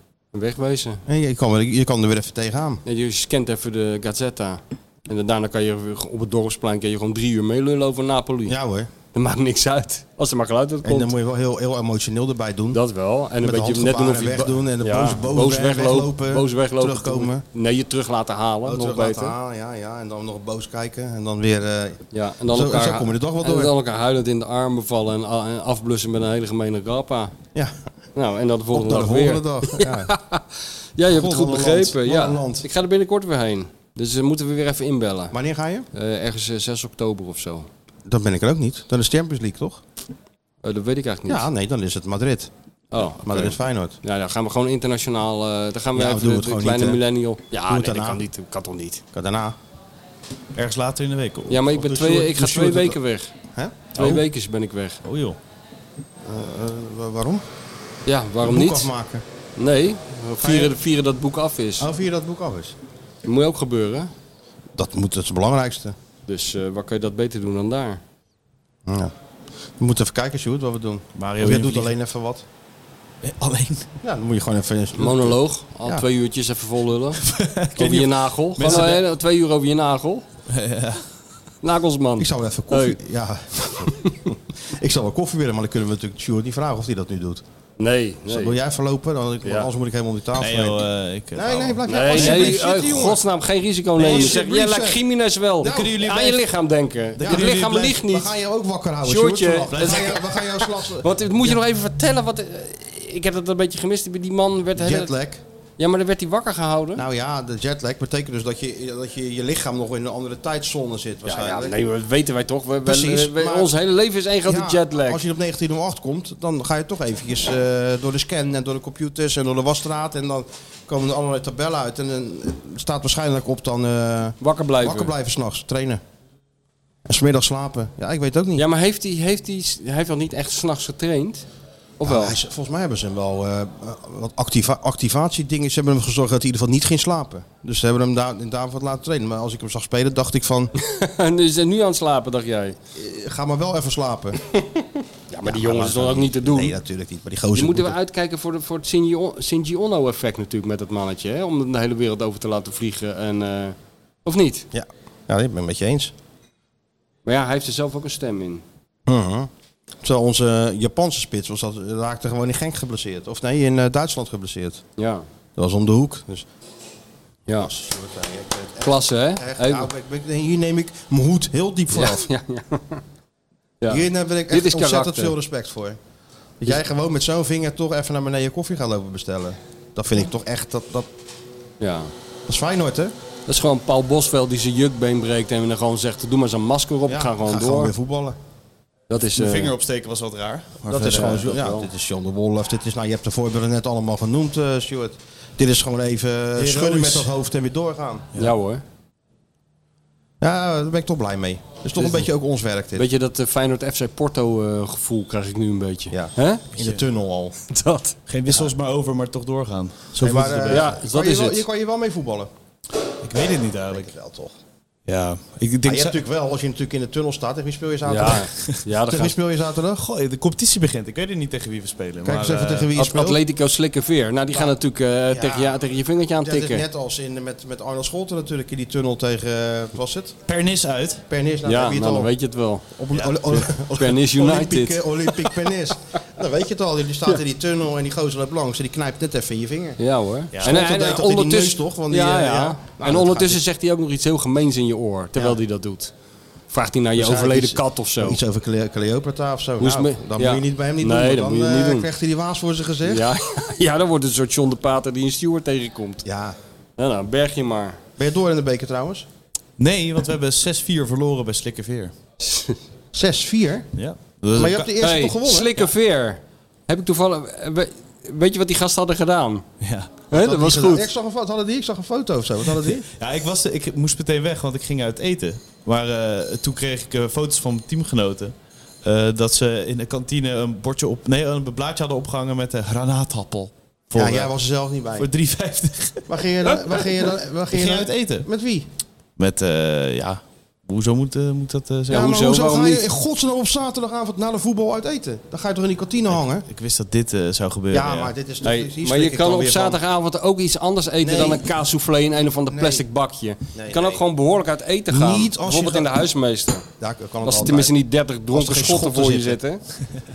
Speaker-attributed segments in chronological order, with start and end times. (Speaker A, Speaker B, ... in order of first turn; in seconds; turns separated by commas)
Speaker A: 0.3-1.0, Speaker B: 1.1-2.8, Speaker A: 2.8-8.6, Speaker B: 8.4-8.9, Speaker A: 9.1-11.1, Speaker B: 10.8-12.8, Speaker A: 12.7-19.3, Speaker B: 13.4-17.4, Speaker B: 18.6-23.7, Speaker A: 22.1-27.3, Speaker B: 27.5-27.8, Speaker A: 28.1-35.3, Speaker B: 28.7-30.1, Speaker B: 31.1-32.6, Speaker B: 35.3-35.9, Speaker A: 35.9-37.7, Speaker B: 38.0-39.8, Speaker A: 40.6-41.5, Speaker B: 41.3-42.5, Speaker A: 42.9-49.0, Speaker B: 43.2-44.0, Speaker B: 45.9-47.0, Speaker B: 47.7-48.2, Speaker B: 49.1-49.5, Speaker C: 50.5-52.7, Speaker A: 51.5-53.3, Speaker B: 51.9-52.9, Speaker B: 53.5-54.0, Speaker A: 53.9-55.0, Speaker C: 55.0-55.4, Speaker B: 56.2-57.4, Speaker A: 58.0-58.9, Speaker B: 58.4-59.2, Speaker A: 59.6-61.9, Speaker B: 60.4-60.7, Speaker B: 61.8-62.7, Speaker A: 63.2-64.1, Speaker B: 64.7-65.9, Speaker A: 66.2-68.0, Speaker B: 68.8-69.1, Speaker B: 69.8-72.4, Speaker C: 71.2-71.9, Speaker C: 73.2-73.9, Speaker B: 74.0-76.0, Speaker A: 75.0-77.2, Speaker C: 77.2-79.0, Speaker A: 77.8-80.2, Speaker C: 80.5-81.0, Speaker A: 81.6-83.0, Speaker B: 82.2-87.4, Speaker A: 83.7-84.2, Speaker A: 87.8-88.6, Speaker B: 88.3-93.2, Speaker A: 89.4-89.7, Speaker C: 90.4-92.6, Speaker A: 91.9-98.3, Speaker B: 94.0-95.0, Speaker B: 95.6-96.2, Speaker C: 95.6-96.4, Speaker C: 97.2-98.0, Speaker B: 97.2-101.5, Speaker A: 99.0-100.0, Speaker C: 99.7-100.2, Speaker A: 100.9-105.1, Speaker B: 104.8-105.4, Speaker A: 105.8-107.0, Speaker B: 107.0-111.8, Speaker A: 111.2-115.2, Speaker B: 112.8-113.7, Speaker B: 114.5-126.0, Speaker A: 124.4-125.1, Speaker B: 127.0-128.6, Speaker A: 128.6-131.4, Speaker A: 132.0-132.3, Speaker B: 132.0-140.7, Speaker A: 140.8-142.8, Speaker B: 142.9-144.4, Speaker A: 145.3-146.8, Speaker B: 145.4-148.0, Speaker A: 147.5-154.7, Speaker B: 154.7-156.1, Speaker A: 157.2-158.6, Speaker B: 159.1-159.5, Speaker B: 160.0-164.8, Speaker A: 165.0-165.2, Speaker B: 165.6-166.4, Speaker B: 167.5-172.3, Speaker A: 168.8-169.9, Speaker A: 171.9-173.0, Speaker A: 173.8-175.3, Speaker B: 173.9-176.0, Speaker B: 176.6-181.1, Speaker A: 181.8-182.1, Speaker B: 182.5-183.1, Speaker A: 183.5-187.9, Speaker B: 187.1-188.4, Speaker A: 189.1-189.7, Speaker C: 189.3-191.5, Speaker B: 190.9-198.3, Speaker A: 191.1-191.9, Speaker C: 196.6-197.3, Speaker A: 198.4-198.8, Speaker B: 200.4-203.1, Speaker A: 202.9-206.6, Speaker B: 206.1-207.6, Speaker A: 207.7-208.2, Speaker C: 208.3-210.9, Speaker B: 210.1-212.5, Speaker A: 210.7-211.7, Speaker C: 213.2-214.1, Speaker B: 213.9-214.5, Speaker C: 215.1-216.2, Speaker B: 215.8-218.5, Speaker A: 218.1-219.3, Speaker B: 219.0-220.0, Speaker C: 220.0-222.9, Speaker B: 222.2-223.4, Speaker A: 222.9-226.8, Speaker B: 225.3-225.8, Speaker B: 226.4-230.3, Speaker C: 230.5-231.2, Speaker B: 231.3-232.3, Speaker A: 231.6-232.8, Speaker B: 232.9-240.0, Speaker C: 233.1-233.7, Speaker A: 233.5-235.5, Speaker A: 240.0-246.1, Speaker B: 240.6-243.6, Speaker A: 246.7-248.4, Speaker B: 247.2-253.3, Speaker A: 249.8-252.1, Speaker A: 253.0-256.2, Speaker B: 256.2-256.6, Speaker A: 257.0-258.0, Speaker B: 258.2-259.3, Speaker C: 259.8-262.1, Speaker A: 262.4-262.8, Speaker B: 263.1-263.9, Speaker C: 263.9-264.9, Speaker B: 264.5-265.7, Speaker A: 265.0-269.6, Speaker C: 269.8-270.1, Speaker A: 270.3-271.1, Speaker B: 270.3-273.1, Speaker C: 273.1-284.5, Speaker B: 284.1-285.3, Speaker C: 285.1-286.3, Speaker B: 286.3-288.9, Speaker C: 287.7-288.5, Speaker C: 289.4-292.2, Speaker B: 292.1-296.6, Speaker A: 292.1-293.0, Speaker C: 296.6-298.3, Speaker B: 297.9-300.0, Speaker A: 298.6-306.9, Speaker B: 301.2-301.7, Speaker B: 302.7-303.1, Speaker B: 303.7-304.2, Speaker B: 305.1-306.1, Speaker B: 307.0-307.9, Speaker A: 307.4-309.8, Speaker B: 308.5-309.6